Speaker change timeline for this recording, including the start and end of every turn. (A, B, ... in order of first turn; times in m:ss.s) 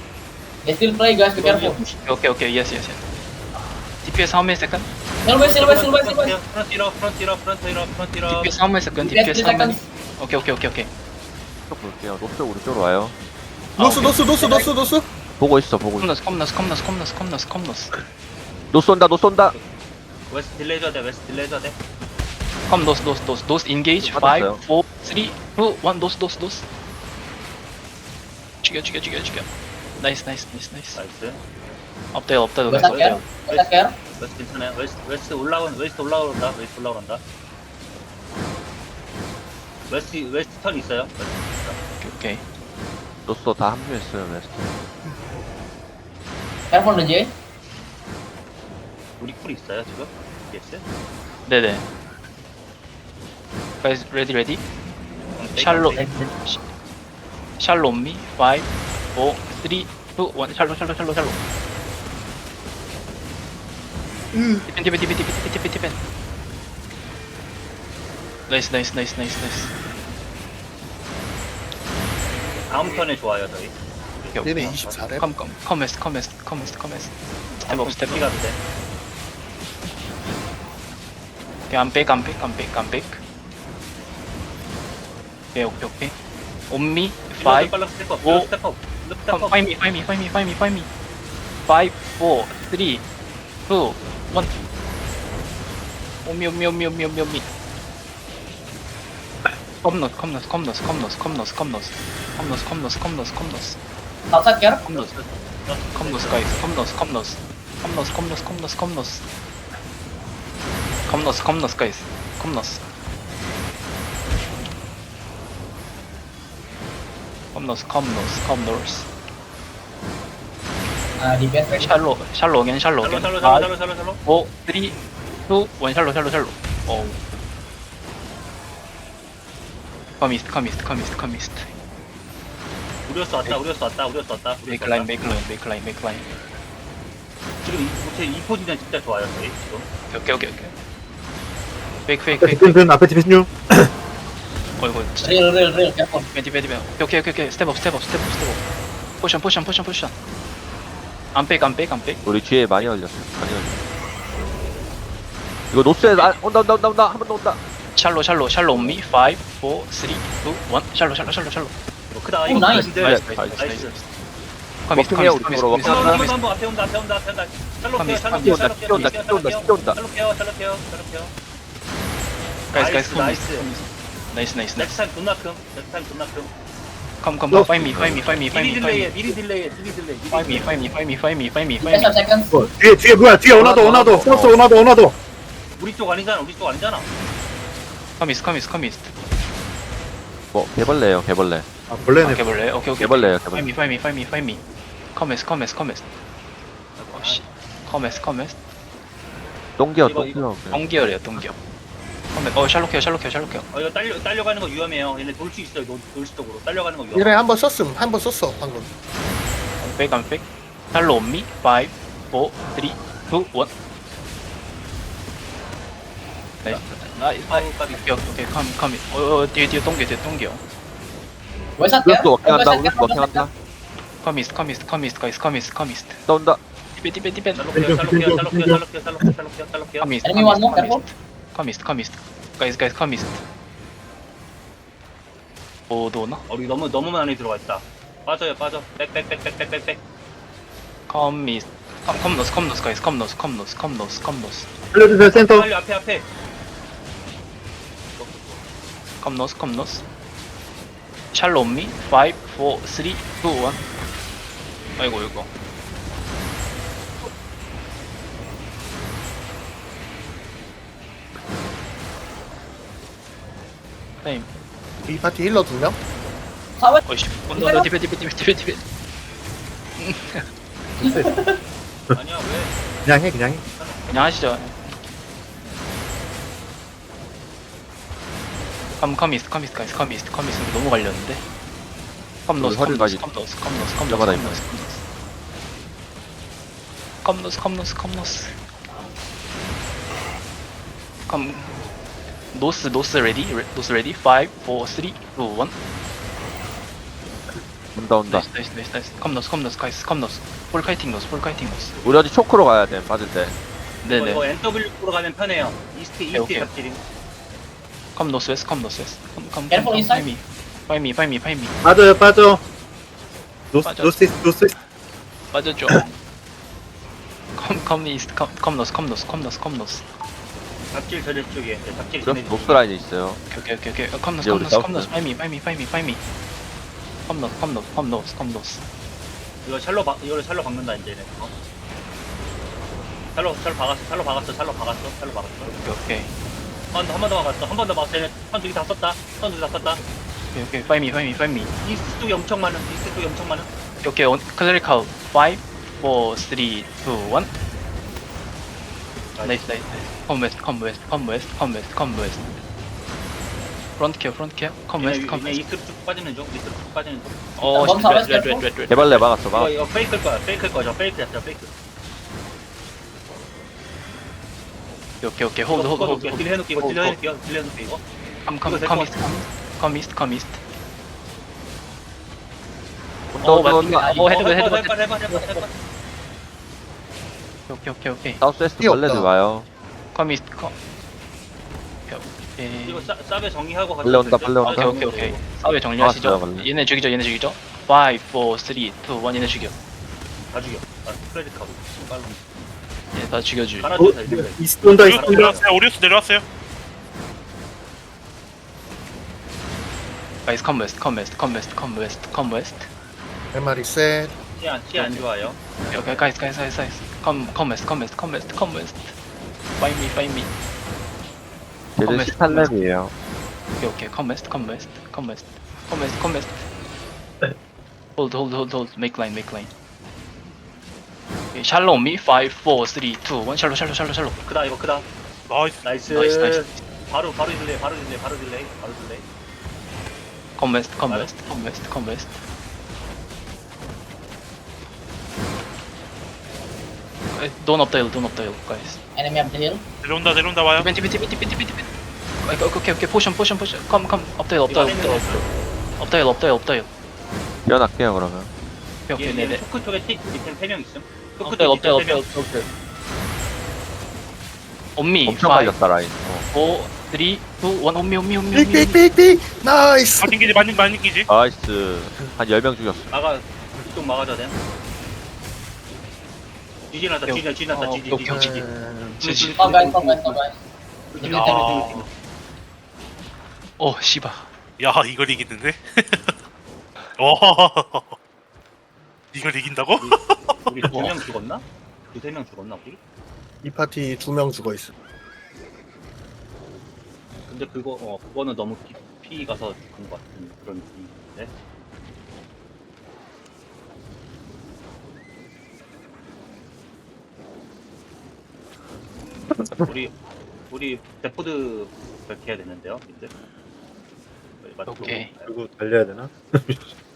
0:00.6-0:01.8 A
0:01.4-0:03.0 B
0:04.0-0:04.9 B
0:05.2-0:06.3 A
0:05.3-0:08.5 C
0:08.3-0:10.9 B
0:08.9-0:09.9 A
0:11.7-0:13.1 D
0:13.8-0:14.2 B
0:13.8-0:15.0 E
0:14.4-0:14.7 A
0:15.4-0:16.1 D
0:16.0-0:17.9 B
0:18.7-0:19.5 D
0:20.3-0:21.8 C
0:22.7-0:26.6 B
0:24.0-0:24.6 D
0:28.6-0:29.5 B
0:30.0-0:31.0 B
0:30.9-0:31.4 C
0:32.1-0:33.7 B
0:32.7-0:34.0 A
0:34.2-0:37.2 C
0:39.9-0:41.8 C
0:42.0-0:42.4 B
0:43.2-0:44.7 D
0:46.7-0:47.3 A
0:49.2-0:50.8 C
0:51.4-0:51.9 B
0:53.8-0:54.6 B
0:55.4-0:56.0 C
0:55.5-0:56.6 B
0:55.9-0:56.3 A
0:57.6-1:01.4 B
1:04.3-1:04.7 E
1:04.7-1:06.0 B
1:08.5-1:09.7 B
1:12.7-1:15.0 C
1:14.3-1:18.3 B
1:14.4-1:15.3 E
1:17.6-1:18.6 C
1:21.7-1:23.2 B
1:25.5-1:26.1 B
1:26.7-1:28.5 B
1:27.4-1:29.6 C
1:29.3-1:30.9 B
1:31.7-1:33.0 B
1:33.6-1:34.5 B
1:36.2-1:37.4 B
1:39.8-1:43.8 B
1:44.3-1:45.0 A
1:44.8-1:45.3 B
1:45.6-1:46.7 C
1:45.9-1:49.2 B
1:51.1-1:52.8 B
1:57.5-1:59.1 B
2:01.2-2:02.0 A
2:01.8-2:07.2 B
2:03.0-2:04.2 C
2:10.2-2:11.7 B
2:13.0-2:15.1 C
2:14.7-2:16.2 B
2:17.6-2:19.9 C
2:20.1-2:20.7 B
2:22.0-2:22.8 B
2:22.4-2:23.9 F
2:24.8-2:25.5 B
2:25.2-2:26.3 A
2:26.3-2:28.6 B
2:29.2-2:30.1 B
2:31.3-2:32.2 B
2:32.2-2:33.9 D
2:35.7-2:37.6 D
2:36.1-2:36.4 B
2:37.9-2:41.7 B
2:38.7-2:39.0 D
2:42.1-2:44.0 C
2:42.5-2:42.9 A
2:42.5-2:44.1 B
2:42.9-2:43.8 D
2:44.8-2:46.3 B
2:44.9-2:46.3 D
2:45.8-2:51.3 C
2:48.0-2:49.2 B
2:48.3-2:50.0 D
2:52.7-2:55.0 B
2:52.7-2:53.7 C
2:54.8-2:56.5 C
2:57.2-2:59.1 B
2:57.8-2:58.2 D
2:58.5-3:00.7 C
3:00.3-3:02.2 B
3:01.8-3:02.6 A
3:02.5-3:05.1 F
3:03.5-3:04.6 D
3:05.8-3:07.1 C
3:08.2-3:09.1 B
3:10.5-3:11.7 D
3:11.9-3:12.4 F
3:12.2-3:14.6 B
3:13.0-3:13.7 D
3:15.1-3:16.1 B
3:17.0-3:17.4 C
3:17.1-3:18.6 B
3:19.8-3:20.9 D
3:20.0-3:20.4 C
3:20.7-3:21.6 B
3:22.3-3:23.6 B
3:23.7-3:27.4 C
3:27.1-3:28.9 E
3:29.8-3:33.7 B
3:36.6-3:40.6 B
3:37.5-3:38.0 C
3:41.8-3:43.4 A
3:42.0-3:43.5 D
3:44.2-3:46.2 B
3:46.2-3:46.6 D
3:46.9-3:47.6 B
3:47.5-3:50.1 C
3:47.7-3:48.8 F
3:50.0-3:53.4 B
3:50.2-3:51.0 A
3:55.9-3:56.4 B
3:56.5-4:00.0 C
4:01.1-4:04.7 B
4:04.9-4:05.7 F
4:05.2-4:06.3 C
4:08.2-4:08.6 C
4:09.2-4:10.0 B
4:11.3-4:13.8 B
4:15.0-4:15.5 B
4:24.2-4:24.5 B
4:25.0-4:26.0 E
4:27.0-4:28.8 B
4:27.5-4:27.8 A
4:30.0-4:30.4 B
4:31.0-4:31.4 F
4:32.1-4:32.8 C
4:33.0-4:33.6 F
4:33.7-4:34.4 C
4:34.1-4:35.1 B
4:39.0-4:41.4 B
4:42.4-4:45.0 B
4:42.6-4:43.2 D
4:44.0-4:44.6 D
4:47.2-4:48.6 B
4:51.3-4:51.8 B
4:52.5-4:55.7 B
4:57.9-4:58.4 D
4:58.3-5:02.0 B
5:02.0-5:03.6 D
5:04.0-5:04.4 B
5:04.1-5:07.0 C
5:06.3-5:06.7 B
5:08.1-5:11.7 B
5:09.7-5:10.3 A
5:11.8-5:12.6 F
5:13.7-5:14.7 F
5:13.8-5:14.2 B
5:15.5-5:16.1 B
5:17.6-5:20.1 B
5:20.9-5:22.8 C
5:22.2-5:23.4 D
5:23.5-5:26.2 B
5:24.4-5:25.1 D
5:27.2-5:28.8 B
5:29.6-5:31.5 C
5:33.3-5:35.8 C
5:35.8-5:36.3 B
5:36.9-5:40.0 C
5:40.5-5:41.7 B
5:41.8-5:43.7 C
5:44.0-5:47.5 B
5:49.4-5:52.6 B
5:54.0-5:55.6 B
5:55.0-5:57.5 C
5:57.6-5:59.3 B
5:57.7-5:58.6 A
5:58.9-5:59.9 D
5:59.5-6:01.7 C
6:05.2-6:07.2 B
6:05.7-6:08.0 C
6:08.4-6:10.6 B
6:08.6-6:09.1 C
6:13.3-6:14.1 D
6:13.4-6:15.6 B
6:14.0-6:15.7 C
6:17.7-6:18.4 B
6:18.4-6:19.7 D
6:18.8-6:19.3 E
6:20.1-6:20.7 B
6:22.1-6:23.1 B
6:22.8-6:25.4 C
6:24.0-6:25.0 D
6:24.6-6:29.7 B
6:26.0-6:26.7 D
6:30.5-6:32.7 C
6:33.1-6:34.0 B
6:33.8-6:35.6 C
6:34.0-6:35.6 F
6:35.0-6:36.4 G
6:40.4-6:42.9 B
6:43.5-6:44.4 E
6:44.6-6:46.3 C
6:45.0-6:45.3 B
6:45.9-6:49.1 B
6:49.8-6:50.5 B
6:52.0-6:53.1 D
6:52.0-6:52.7 B
6:53.8-6:56.6 B
6:58.2-6:59.7 B
7:01.5-7:04.4 B
7:04.4-7:05.1 C
7:05.5-7:05.8 G
7:05.8-7:09.2 C
7:06.1-7:06.8 B
7:10.6-7:12.4 B
7:11.0-7:11.4 C
7:17.3-7:19.0 B
7:19.1-7:19.8 A
7:20.0-7:20.9 G
7:20.8-7:21.9 B
7:22.4-7:25.4 B
7:24.7-7:25.5 C
7:26.0-7:26.9 B
7:27.7-7:28.5 D
7:29.1-7:29.6 B
7:29.2-7:32.2 C
7:31.4-7:32.7 B
7:35.0-7:35.8 B
7:35.2-7:36.4 D
7:36.5-7:39.0 B
7:38.5-7:40.4 E
7:40.2-7:41.3 G
7:41.3-7:43.1 D
7:43.1-7:44.6 C
7:46.9-7:48.7 C
7:47.3-7:48.4 B
7:48.3-7:49.2 E
7:49.2-7:50.4 C
7:49.2-7:49.6 B
7:49.6-7:50.6 A
7:51.2-7:52.0 A
7:51.2-7:52.1 C
7:51.3-7:51.9 G
7:53.8-7:54.5 B
7:54.8-7:55.8 G
7:57.2-7:58.1 G
7:59.3-8:00.7 G
8:00.0-8:03.0 C
8:03.6-8:04.9 E
8:07.5-8:11.5 C
8:19.8-8:20.1 C
8:20.7-8:23.3 C
8:24.6-8:25.5 C
8:24.9-8:25.3 B
8:25.4-8:26.9 F